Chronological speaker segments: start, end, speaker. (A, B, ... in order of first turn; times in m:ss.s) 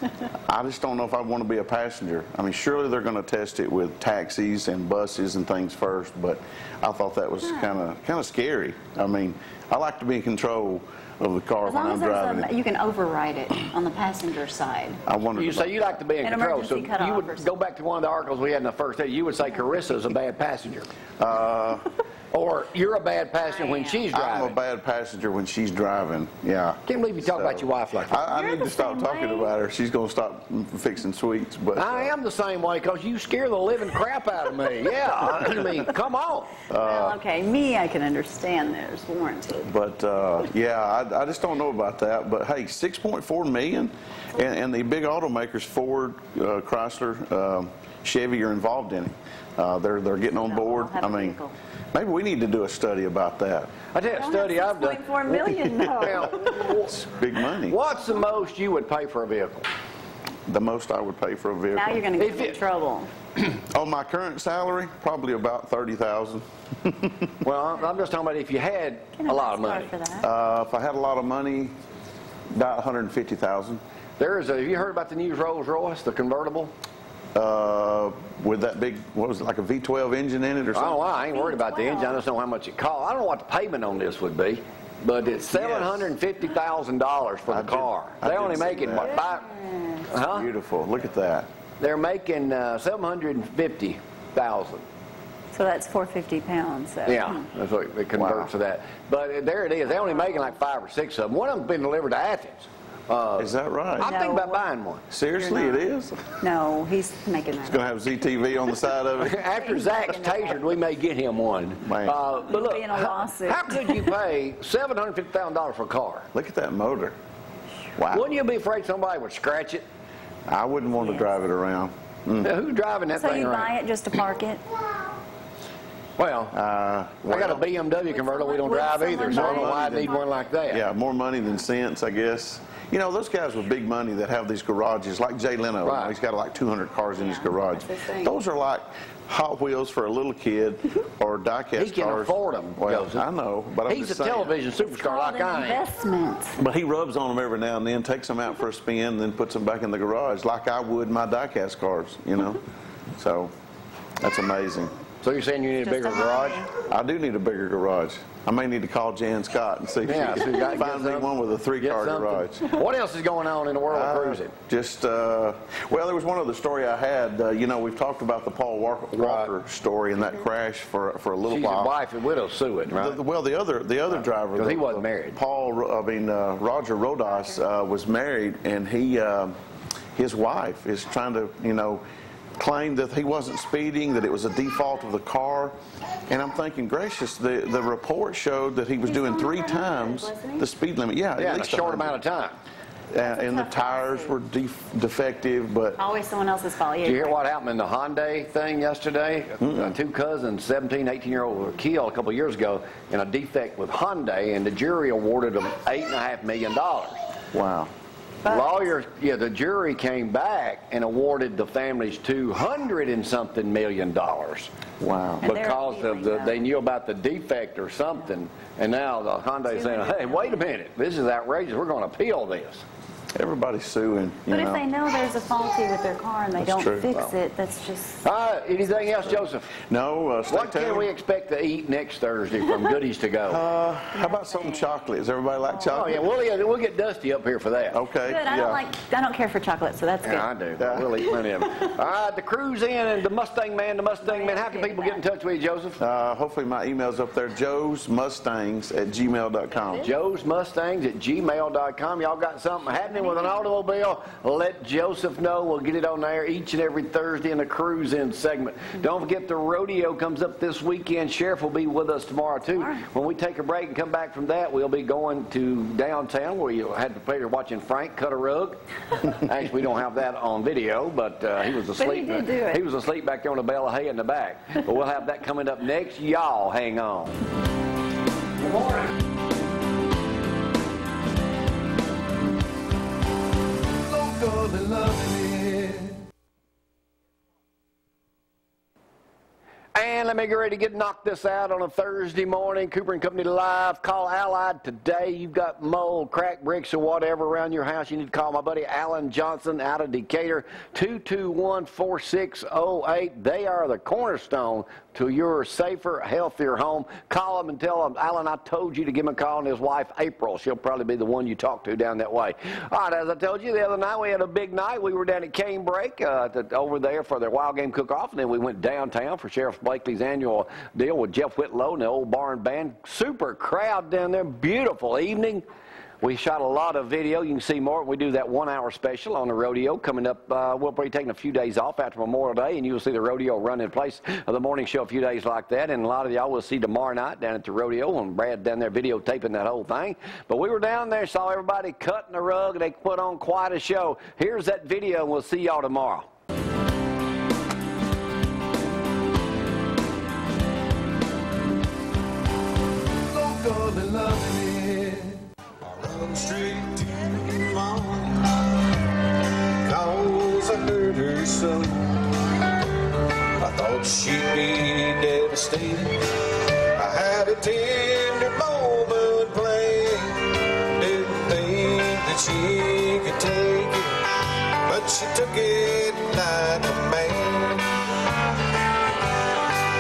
0:00.5-0:12.5 A
0:11.6-0:15.0 B
0:15.1-0:16.0 A
0:15.4-0:20.9 C
0:16.2-0:17.5 B
0:21.2-0:21.9 A
0:22.3-0:24.6 C
0:23.4-0:24.0 B
0:24.1-0:32.1 A
0:26.9-0:28.2 C
0:28.3-0:29.5 B
0:31.8-0:36.6 C
0:36.7-0:37.2 A
0:36.8-0:39.7 B
0:39.7-0:51.4 A
0:50.4-0:51.5 B
0:51.9-0:53.7 A
0:53.9-0:57.0 C
0:54.2-0:56.7 B
0:56.6-0:57.8 A
0:57.6-0:59.7 C
1:00.5-1:02.1 A
1:01.7-1:03.1 B
1:02.2-1:02.6 C
1:03.4-1:07.4 A
1:07.4-1:10.0 C
1:09.2-1:10.3 B
1:10.2-1:11.8 A
1:12.5-1:13.8 A
1:14.2-1:16.7 C
1:17.4-1:21.0 A
1:20.7-1:29.5 C
1:21.2-1:22.2 B
1:25.5-1:26.1 A
1:27.5-1:29.2 A
1:29.2-1:30.1 B
1:30.1-1:30.5 C
1:30.2-1:31.5 A
1:31.8-1:34.8 C
1:35.5-1:37.5 B
1:37.1-1:45.0 C
1:38.2-1:38.5 A
1:43.4-1:44.1 A
1:44.0-1:44.6 B
1:45.1-1:46.3 A
1:45.3-1:47.8 B
1:47.6-1:49.4 A
1:49.2-1:56.3 C
1:49.4-1:50.6 B
1:51.8-1:52.2 A
1:52.4-1:54.1 B
1:56.3-1:57.2 A
1:58.0-1:58.3 A
1:58.1-1:59.8 C
2:00.5-2:02.5 A
2:01.0-2:01.3 B
2:02.4-2:03.8 C
2:03.2-2:04.6 B
2:06.2-2:06.6 C
2:06.5-2:07.7 A
2:07.3-2:10.9 C
2:08.1-2:10.3 B
2:09.3-2:10.1 A
2:10.7-2:24.6 A
2:15.8-2:16.2 C
2:17.2-2:18.4 B
2:21.8-2:23.3 C
2:23.9-2:25.8 C
2:24.8-2:26.6 B
2:26.6-2:32.6 A
2:33.2-2:33.5 A
2:34.2-2:34.9 A
2:35.2-2:36.7 C
2:35.8-2:36.7 B
2:36.7-2:42.7 A
2:40.0-2:44.5 C
2:43.9-2:52.0 A
2:49.1-2:49.5 C
2:51.5-2:53.2 C
2:52.9-2:59.5 A
2:54.5-2:55.4 C
3:00.2-3:02.0 A
3:02.6-3:05.8 A
3:06.3-3:12.2 A
3:09.0-3:10.7 B
3:11.4-3:12.6 C
3:13.1-3:16.0 A
3:13.2-3:14.4 B
3:16.0-3:17.4 B
3:17.0-3:27.2 C
3:19.6-3:19.9 A
3:27.5-3:27.9 A
3:28.4-3:34.7 C
3:28.4-3:28.8 B
3:35.0-3:35.5 A
3:35.4-3:36.7 B
3:35.4-3:42.8 C
3:39.7-3:40.6 B
3:43.4-3:44.9 A
3:44.5-3:48.2 B
3:46.6-3:47.1 A
3:48.2-3:49.7 C
3:49.9-3:51.1 A
3:50.5-3:53.6 C
3:53.5-3:56.2 A
3:54.1-3:55.0 B
3:55.9-3:58.0 C
3:57.9-3:58.8 A
3:58.2-4:00.5 B
4:00.2-4:06.0 C
4:00.8-4:01.1 A
4:01.2-4:01.9 B
4:04.2-4:05.2 B
4:06.0-4:10.1 A
4:09.9-4:37.4 C
4:31.9-4:32.8 B
4:38.6-4:39.0 C
4:44.2-4:46.2 C
4:50.0-5:25.6 C
5:26.2-5:46.3 C
5:53.4-5:55.3 D
5:55.8-5:58.6 D
5:59.8-6:02.0 D
6:03.6-6:06.3 D
6:07.0-6:18.0 D